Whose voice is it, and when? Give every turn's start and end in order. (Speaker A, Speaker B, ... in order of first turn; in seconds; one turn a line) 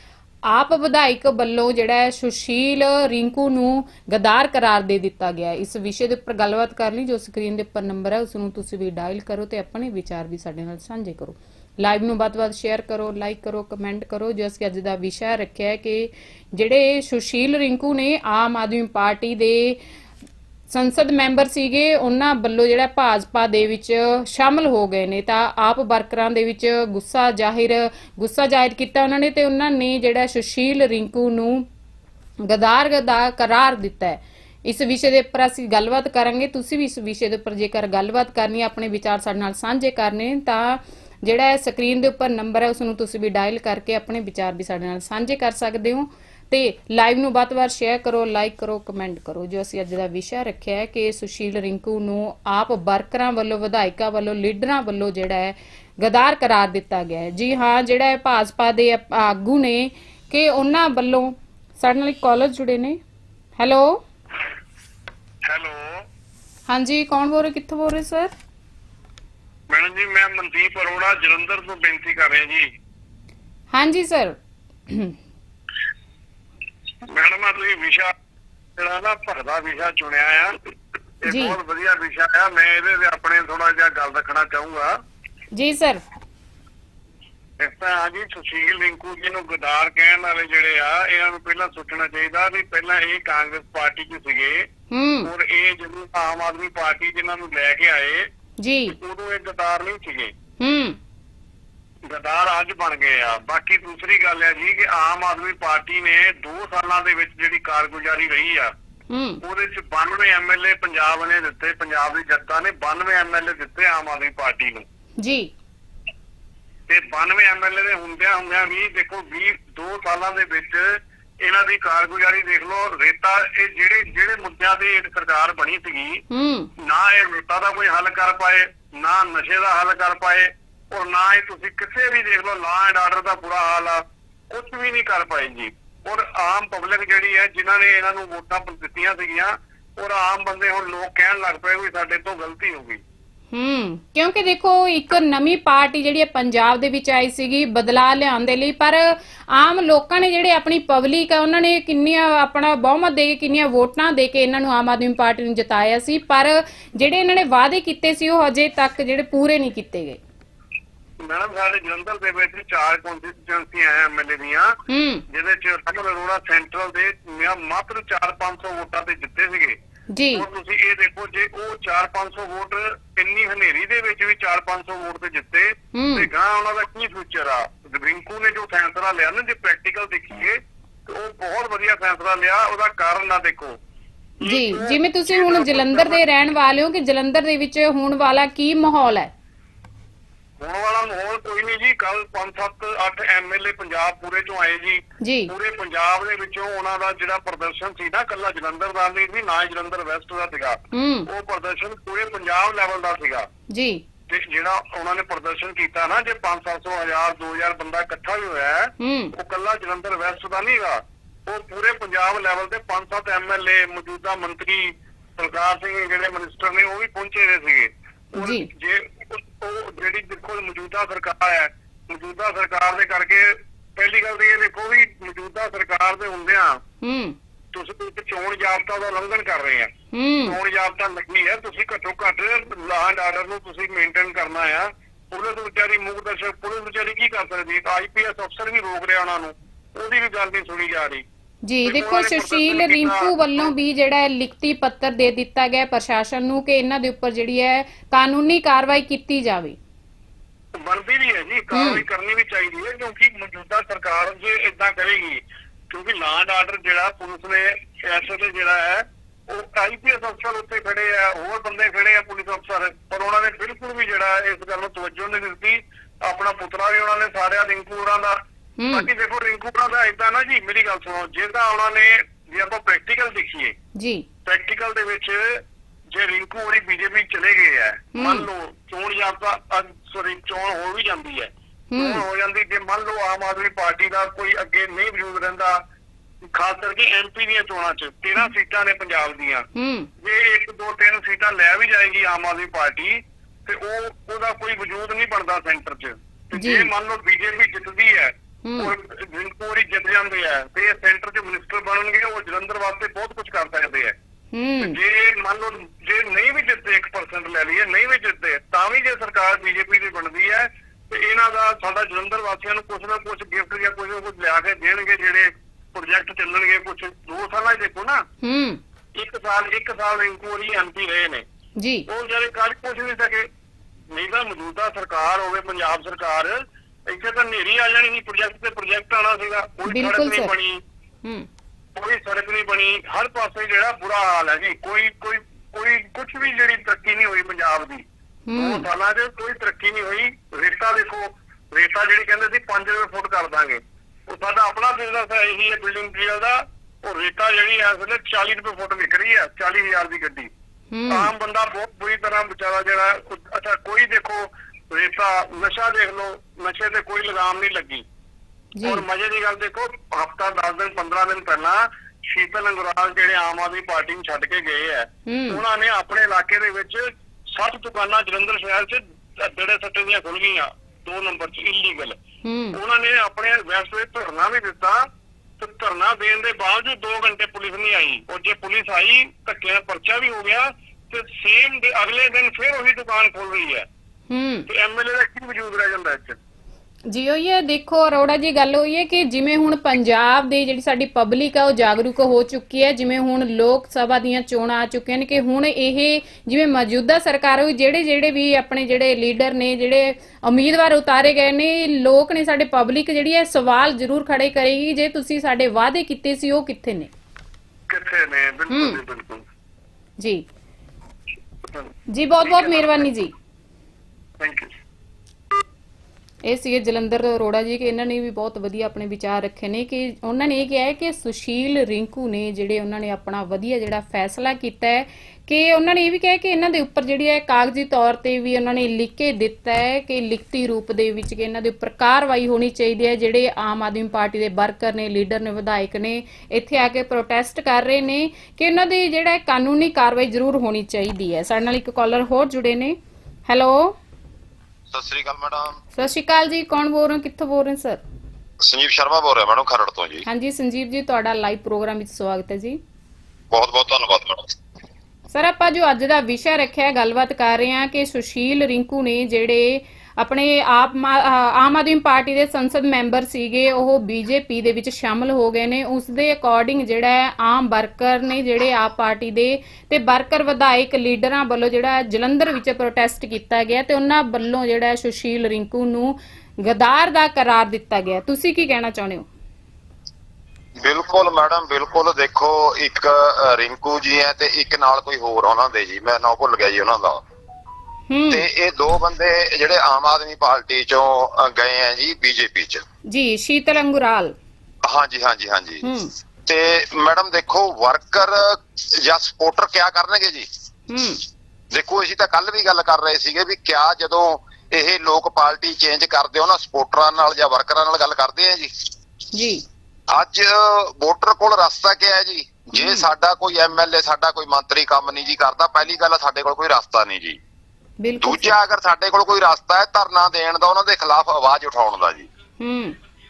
Speaker A: 0.5-19.8
Speaker A: 20.7-31.7
Speaker A: 32.4-63.0
Speaker A: 63.6-64.0
Speaker B: 65.5-66.1
Speaker A: 66.7-68.3
Speaker B: 69.7-72.7
Speaker A: 73.7-74.4
Speaker A: 74.9-75.2
Speaker B: 77.1-78.1
Speaker B: 78.8-80.6
Speaker B: 81.2-85.0
Speaker A: 81.3-81.6
Speaker A: 85.5-86.0
Speaker B: 87.6-94.7
Speaker A: 94.9-95.3
Speaker B: 95.2-98.3
Speaker A: 98.6-99.0
Speaker B: 99.0-100.3
Speaker A: 100.6-101.0
Speaker B: 102.1-108.7
Speaker A: 109.1-109.4
Speaker B: 109.4-114.9
Speaker A: 115.2-115.5
Speaker B: 116.9-126.2
Speaker A: 126.3-126.7
Speaker B: 126.8-143.0
Speaker A: 143.5-160.2
Speaker B: 161.2-169.8
Speaker A: 164.9-165.2
Speaker A: 170.1-170.5
Speaker B: 170.3-183.8
Speaker A: 175.9-176.3
Speaker B: 184.4-186.2
Speaker A: 184.4-189.3
Speaker B: 190.6-203.5
Speaker A: 195.2-195.5
Speaker A: 200.9-201.3
Speaker A: 203.7-204.0
Speaker B: 204.3-226.8
Speaker A: 209.0-209.3
Speaker A: 218.4-218.7
Speaker A: 227.0-227.4
Speaker B: 227.7-229.9
Speaker A: 230.1-230.6
Speaker B: 230.4-241.2
Speaker A: 241.7-249.8
Speaker B: 241.8-243.7
Speaker B: 250.8-268.4
Speaker A: 251.7-252.0
Speaker A: 268.8-269.1
Speaker B: 268.9-273.8
Speaker A: 274.0-274.3
Speaker B: 274.4-285.8
Speaker A: 278.1-278.5
Speaker A: 281.9-282.2
Speaker B: 286.5-289.7
Speaker A: 289.8-290.1
Speaker B: 290.2-304.2
Speaker A: 296.6-296.9
Speaker A: 298.6-298.9
Speaker A: 304.5-305.0
Speaker B: 304.8-318.2
Speaker A: 318.4-318.8
Speaker B: 319.1-321.4
Speaker A: 321.8-322.1
Speaker B: 322.1-323.5
Speaker B: 324.1-330.8
Speaker A: 329.9-330.5
Speaker B: 332.0-350.5
Speaker A: 338.5-338.9
Speaker A: 350.9-351.3
Speaker B: 351.1-358.1
Speaker A: 358.8-359.0
Speaker B: 358.8-372.2
Speaker A: 365.3-365.6
Speaker A: 372.4-372.8
Speaker B: 372.7-383.9
Speaker A: 384.3-384.7
Speaker B: 384.7-386.4
Speaker A: 387.1-407.1
Speaker B: 407.9-409.5
Speaker A: 408.7-409.0
Speaker A: 412.1-413.3
Speaker B: 412.4-413.1
Speaker B: 414.4-414.7
Speaker A: 416.4-443.0
Speaker A: 443.5-444.0
Speaker C: 444.9-445.8
Speaker A: 446.0-448.0
Speaker C: 448.6-450.3
Speaker A: 450.3-452.8
Speaker C: 453.5-454.6
Speaker A: 455.3-479.3
Speaker C: 480.8-487.2
Speaker A: 488.1-488.5
Speaker C: 488.3-492.8
Speaker A: 493.1-494.4
Speaker C: 494.9-495.8
Speaker A: 495.8-496.1
Speaker C: 496.5-500.5
Speaker A: 500.9-501.2
Speaker C: 501.7-508.7
Speaker A: 509.3-509.6
Speaker C: 510.1-517.4
Speaker A: 512.7-513.1
Speaker A: 518.0-518.5
Speaker C: 518.2-522.3
Speaker A: 522.6-523.0